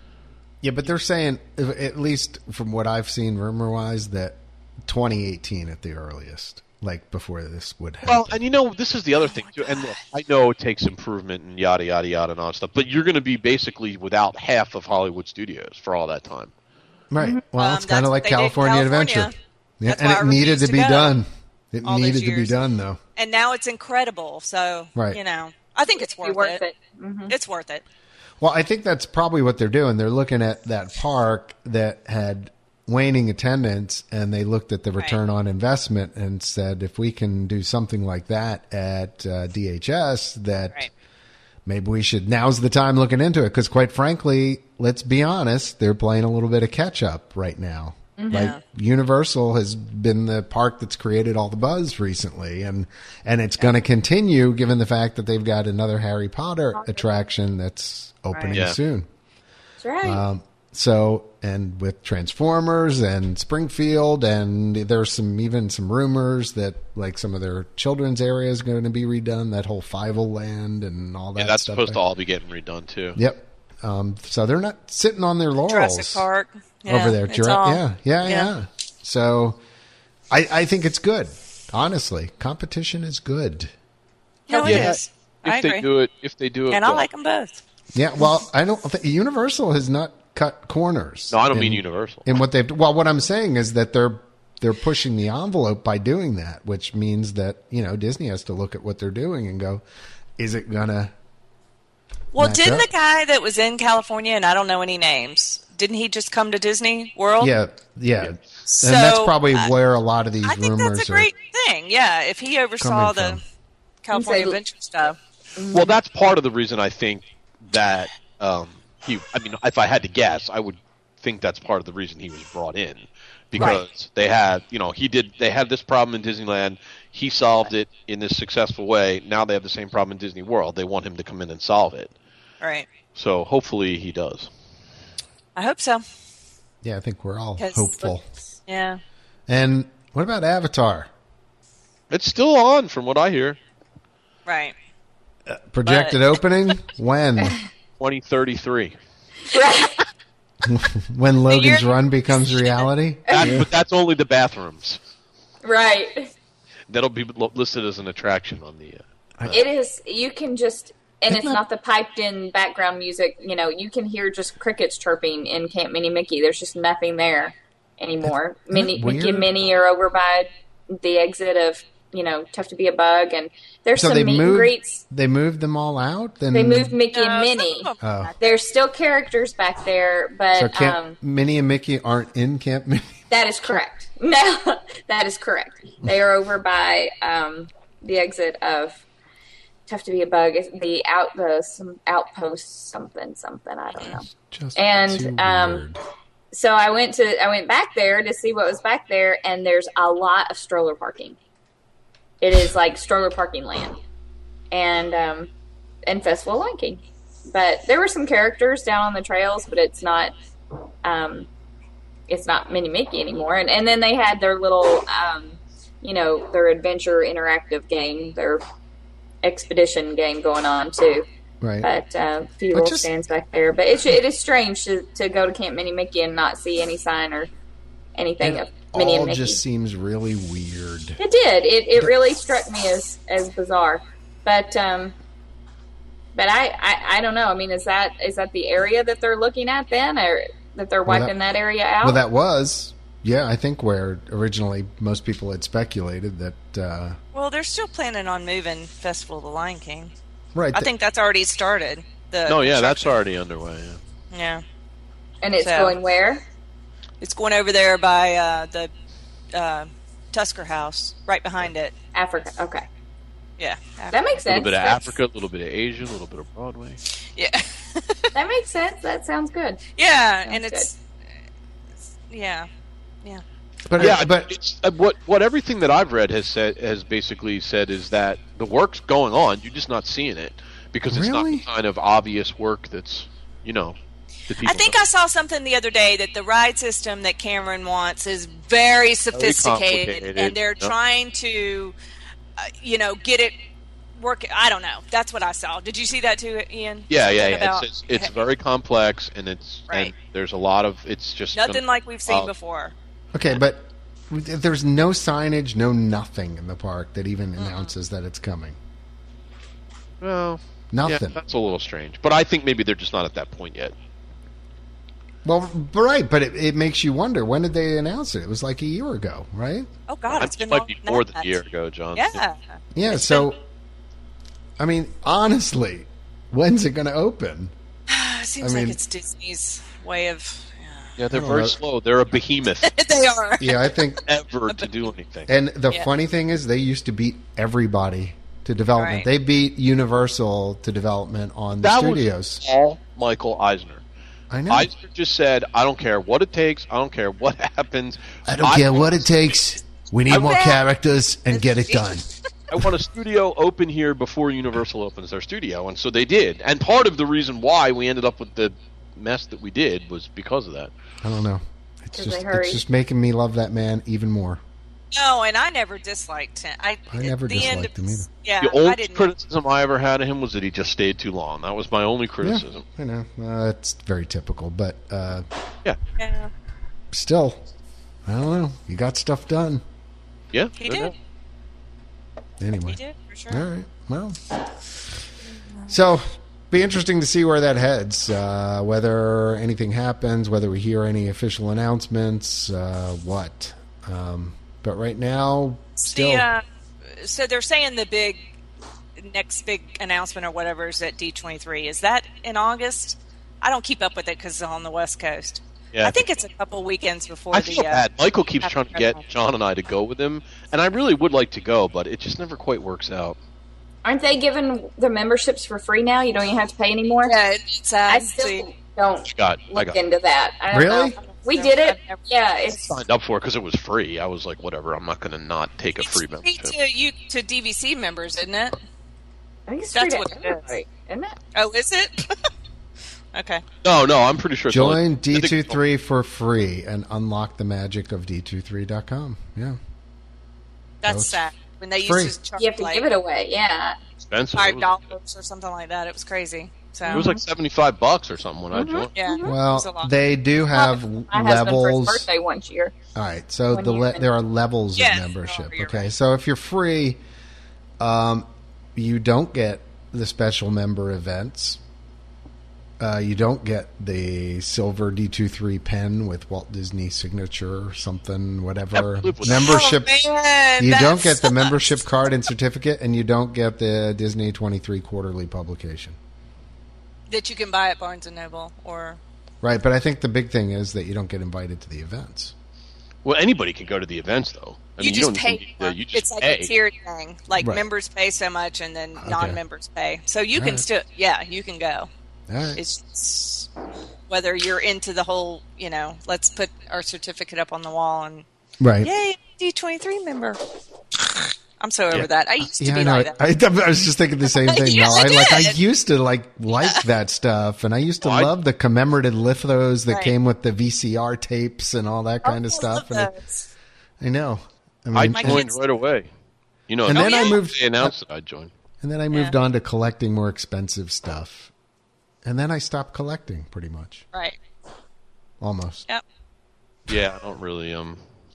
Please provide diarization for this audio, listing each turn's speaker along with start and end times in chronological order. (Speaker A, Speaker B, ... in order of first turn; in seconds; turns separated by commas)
Speaker A: 0.6-8.4, Speaker B: 8.0-16.5, Speaker C: 9.3-10.0, Speaker A: 17.1-23.0, Speaker C: 17.5-21.1, Speaker C: 21.8-22.6, Speaker C: 23.1-26.6, Speaker A: 24.9-25.2, Speaker D: 26.0-27.3, Speaker C: 27.3-27.8, Speaker A: 28.4-40.9, Speaker A: 41.6-59.1, Speaker D: 48.2-48.5, Speaker C: 48.3-48.6, Speaker D: 59.8-60.2, Speaker A: 60.0-72.0, Speaker B: 71.4-73.2, Speaker A: 73.1-76.2, Speaker C: 75.7-78.5, Speaker A: 76.9-79.6, Speaker A: 80.3-83.7, Speaker C: 84.5-85.8, Speaker B: 84.5-87.1, Speaker A: 84.6-85.0, Speaker C: 86.7-87.6, Speaker A: 87.9-99.8, Speaker B: 91.3-92.3, Speaker A: 100.4-101.1, Speaker C: 102.3-107.5, Speaker A: 102.3-102.9, Speaker A: 107.4-111.3, Speaker C: 108.6-109.7, Speaker C: 110.4-113.4, Speaker A: 112.8-113.4, Speaker C: 114.0-115.2, Speaker D: 114.1-114.6, Speaker D: 115.5-116.0, Speaker B: 115.7-132.1, Speaker C: 132.6-132.9, Speaker B: 133.1-134.5, Speaker C: 135.5-136.0, Speaker A: 136.8-138.2, Speaker C: 137.6-138.1, Speaker C: 138.7-139.0, Speaker A: 139.5-141.1, Speaker B: 142.1-143.6, Speaker C: 144.4-144.7, Speaker A: 145.5-147.6, Speaker C: 145.8-146.2, Speaker B: 148.0-148.9, Speaker D: 149.5-150.0, Speaker A: 150.6-153.7, Speaker C: 151.5-152.9, Speaker D: 153.3-153.6, Speaker B: 153.3-155.0, Speaker D: 155.6-156.3, Speaker B: 156.9-159.6, Speaker D: 159.5-175.0, Speaker A: 168.2-169.5, Speaker A: 173.9-177.0, Speaker D: 176.5-181.2, Speaker C: 177.1-178.6, Speaker A: 178.0-178.3, Speaker A: 180.5-183.1, Speaker D: 183.3-189.0, Speaker D: 189.9-195.8, Speaker A: 194.3-196.0, Speaker D: 196.5-201.4, Speaker D: 202.4-204.0, Speaker D: 204.7-205.5, Speaker D: 206.1-210.3, Speaker D: 211.0-211.5, Speaker D: 212.3-218.6, Speaker D: 219.4-221.2, Speaker A: 221.6-221.9, Speaker D: 221.8-227.5, Speaker A: 222.7-223.1, Speaker D: 228.2-229.6, Speaker A: 228.4-231.2, Speaker D: 231.2-235.1, Speaker D: 236.3-242.2, Speaker A: 241.1-241.3, Speaker A: 242.0-247.2, Speaker C: 247.3-250.1, Speaker A: 250.5-250.9, Speaker C: 250.7-253.2, Speaker B: 252.5-254.0, Speaker C: 254.3-254.6, Speaker D: 255.4-256.4, Speaker C: 255.6-256.0, Speaker C: 257.2-258.9, Speaker C: 259.5-261.9, Speaker D: 262.1-262.8, Speaker C: 263.6-264.2, Speaker D: 264.1-265.0, Speaker B: 264.4-267.0, Speaker C: 267.3-268.3, Speaker D: 268.3-269.8, Speaker C: 269.9-271.0, Speaker D: 270.4-270.9, Speaker C: 272.3-272.7, Speaker A: 273.9-274.5, Speaker B: 274.0-284.0, Speaker A: 281.1-281.6, Speaker B: 284.5-284.9, Speaker C: 284.6-291.9, Speaker B: 289.3-290.9, Speaker C: 292.6-293.6, Speaker C: 294.1-298.3, Speaker B: 297.1-302.5, Speaker C: 301.5-302.9, Speaker A: 303.3-308.8, Speaker C: 307.6-307.9, Speaker B: 310.2-313.9, Speaker A: 310.9-311.4, Speaker A: 315.4-319.9, Speaker C: 320.1-321.5, Speaker B: 320.3-322.4, Speaker C: 322.1-323.5, Speaker A: 322.9-323.6, Speaker A: 324.8-327.7, Speaker C: 328.1-331.1, Speaker A: 328.6-329.0, Speaker B: 331.2-332.9, Speaker A: 331.3-331.8, Speaker C: 332.8-334.0, Speaker A: 333.6-334.2, Speaker B: 334.2-335.5, Speaker A: 335.5-342.6, Speaker C: 339.0-339.2, Speaker B: 341.8-344.0, Speaker A: 344.5-344.9, Speaker B: 344.7-349.5, Speaker A: 348.4-352.2, Speaker C: 350.3-350.8, Speaker B: 350.3-350.6, Speaker C: 351.5-352.2, Speaker B: 352.7-360.9, Speaker A: 361.2-364.6, Speaker D: 362.1-362.8, Speaker C: 365.1-369.3, Speaker A: 367.1-368.2, Speaker B: 368.6-372.8, Speaker A: 372.4-375.5, Speaker C: 376.2-376.5, Speaker A: 377.1-377.6, Speaker A: 378.2-379.8, Speaker B: 380.5-381.1, Speaker C: 380.8-381.1, Speaker A: 382.6-383.0, Speaker C: 382.9-383.6, Speaker A: 383.5-384.4, Speaker A: 385.9-396.5, Speaker C: 396.0-398.4, Speaker C: 399.2-408.1, Speaker B: 405.9-406.2, Speaker B: 407.5-413.4, Speaker C: 408.6-409.2, Speaker D: 414.0-417.3, Speaker C: 417.2-418.6, Speaker D: 418.1-422.9, Speaker B: 419.3-420.0, Speaker A: 420.7-421.1, Speaker C: 421.2-422.2, Speaker B: 422.7-426.7, Speaker C: 426.0-428.8, Speaker D: 429.7-431.4, Speaker C: 429.9-430.7, Speaker C: 431.5-432.5, Speaker C: 433.3-433.6, Speaker B: 433.8-435.8, Speaker A: 434.7-439.8, Speaker C: 441.0-443.1, Speaker A: 441.0-441.4, Speaker A: 442.0-442.4, Speaker D: 442.6-444.0, Speaker B: 444.2-445.0, Speaker C: 444.6-447.3, Speaker D: 447.0-447.4, Speaker B: 447.1-449.1, Speaker D: 448.7-449.6, Speaker C: 449.1-450.1, Speaker A: 449.4-452.2, Speaker D: 450.7-452.9, Speaker A: 453.1-457.2, Speaker D: 453.7-454.2, Speaker C: 455.0-456.1, Speaker A: 458.0-461.8, Speaker A: 463.0-470.1, Speaker B: 468.9-469.7, Speaker C: 469.4-471.9, Speaker A: 470.8-476.2, Speaker C: 477.3-479.2, Speaker A: 479.6-482.5, Speaker B: 483.2-486.7, Speaker C: 485.0-492.1, Speaker A: 487.6-487.9, Speaker A: 489.2-489.6, Speaker A: 490.5-490.8, Speaker A: 492.5-492.8, Speaker C: 492.8-493.7, Speaker C: 494.3-498.4, Speaker A: 498.8-499.1, Speaker C: 499.0-500.6, Speaker C: 501.8-503.4, Speaker A: 502.1-513.3, Speaker C: 504.5-505.8, Speaker C: 506.7-507.0, Speaker B: 508.2-508.5, Speaker C: 510.1-510.3, Speaker C: 512.4-513.7, Speaker A: 514.2-515.6, Speaker B: 515.1-516.3, Speaker C: 515.3-515.8, Speaker B: 516.9-518.7, Speaker A: 517.0-518.1, Speaker C: 517.1-517.6, Speaker A: 519.0-521.7, Speaker A: 522.4-524.2, Speaker A: 525.6-526.1, Speaker B: 527.1-528.2